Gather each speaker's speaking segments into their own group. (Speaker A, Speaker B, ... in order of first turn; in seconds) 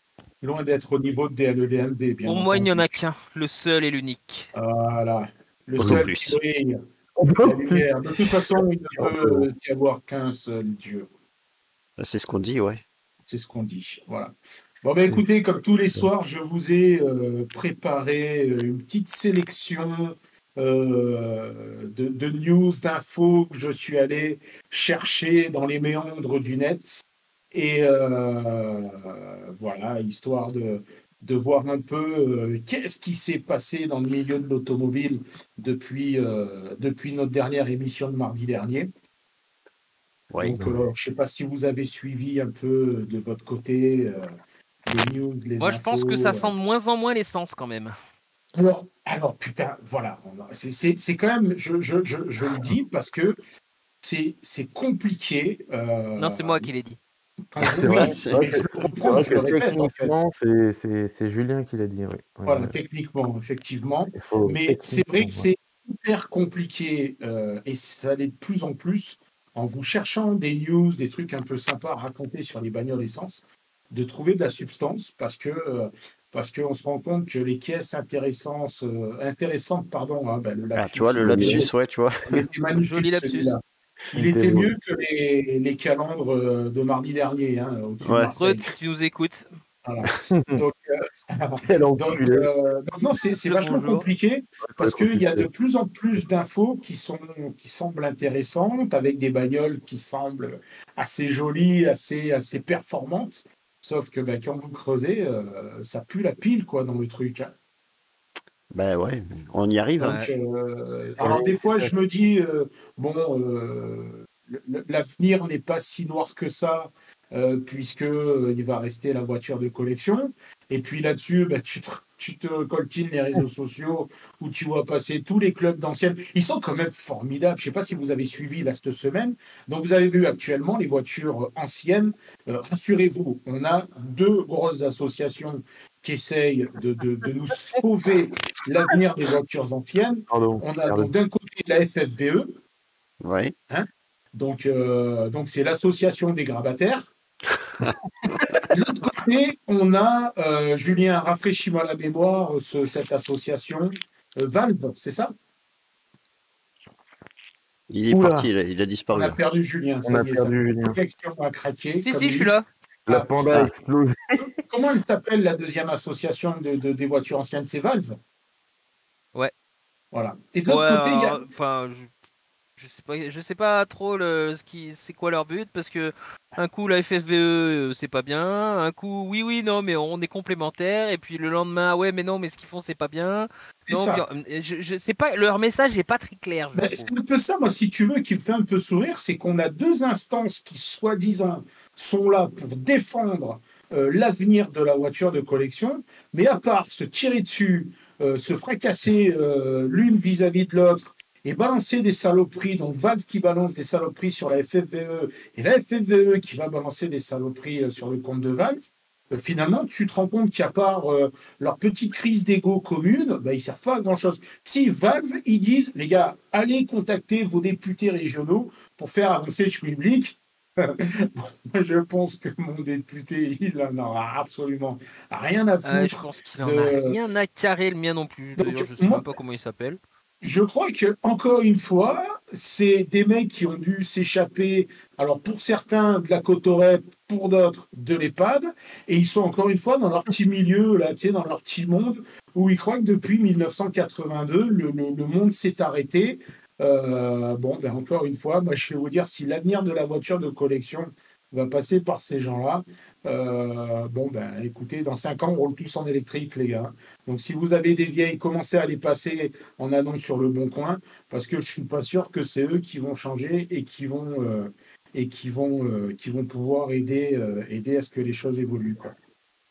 Speaker A: 0.4-2.9, 4.5-6.8, 7.4-11.1, 13.3-14.3, 14.8-38.9, 40.4-44.3, 44.9-46.5, 48.6-53.4, 54.0-56.7, 57.5-60.2, 62.5-81.7, 82.3-83.6, 84.1-88.7, 89.8-90.8, 91.3-107.5, 110.0-142.6, 143.7-147.1, 148.7-155.3, 159.1-162.5, 163.1-163.5, 164.6-168.2, 170.1-171.4, 183.9-184.2, 186.8-208.8, 209.3-227.2, 228.6-229.2, 230.4-269.1
Speaker B: 2.3-4.5, 45.6-47.9, 56.2-57.0, 82.9-83.6, 88.3-89.5, 93.5-94.1, 110.0-110.3, 162.0-162.7, 170.7-172.1, 172.8-187.1, 225.8-230.0
Speaker C: 5.8-6.4, 12.0-12.8, 40.3-40.8, 57.7-58.4, 80.8-82.4, 88.0-88.3, 108.7-110.2, 111.2-111.9, 143.2-143.5, 157.9-159.4
Speaker D: 7.2-7.8, 9.0-9.5, 57.7-62.8, 64.2-65.5, 81.2-81.7, 84.1-84.7, 90.3-90.6, 91.7-92.5, 94.7-95.5, 140.3-141.1, 158.1-158.5, 160.1-161.0, 163.1-164.4